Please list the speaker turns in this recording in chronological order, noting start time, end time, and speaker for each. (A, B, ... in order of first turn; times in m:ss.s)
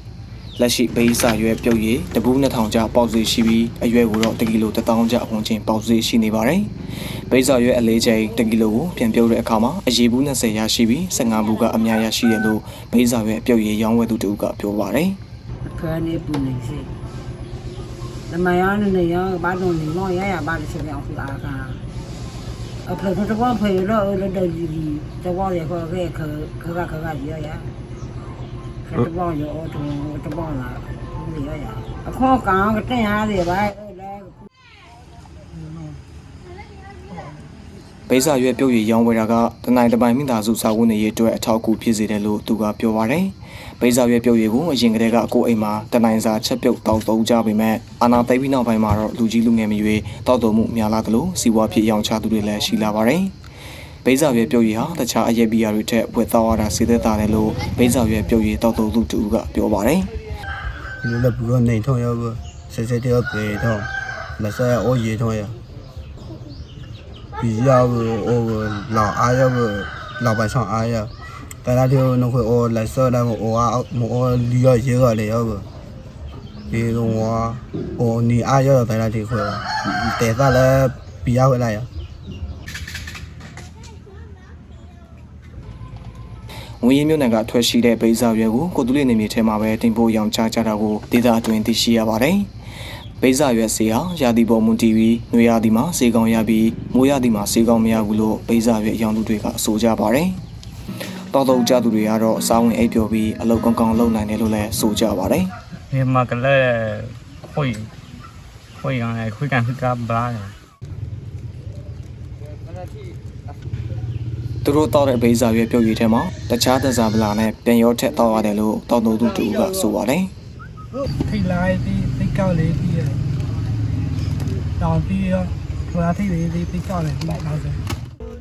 0:00.6-0:06.7 A
0:07.3-0:15.2 A
0:15.6-0:16.9 B
0:18.3-0:21.8 B
0:22.8-0:27.7 B
0:28.8-0:34.5 B
0:35.5-0:36.0 B
0:38.1-0:53.3 A
0:54.0-1:00.1 A
1:01.0-1:05.6 C
1:07.4-1:11.1 C
1:11.6-1:15.7 C
1:16.7-1:21.9 C
1:26.8-1:32.5 A
1:33.2-1:40.4 A
1:41.3-1:45.5 A
1:45.9-1:47.9 D
1:48.8-1:50.6 D
1:54.6-2:00.3 A
2:01.2-2:03.2 E
2:04.8-2:07.8 E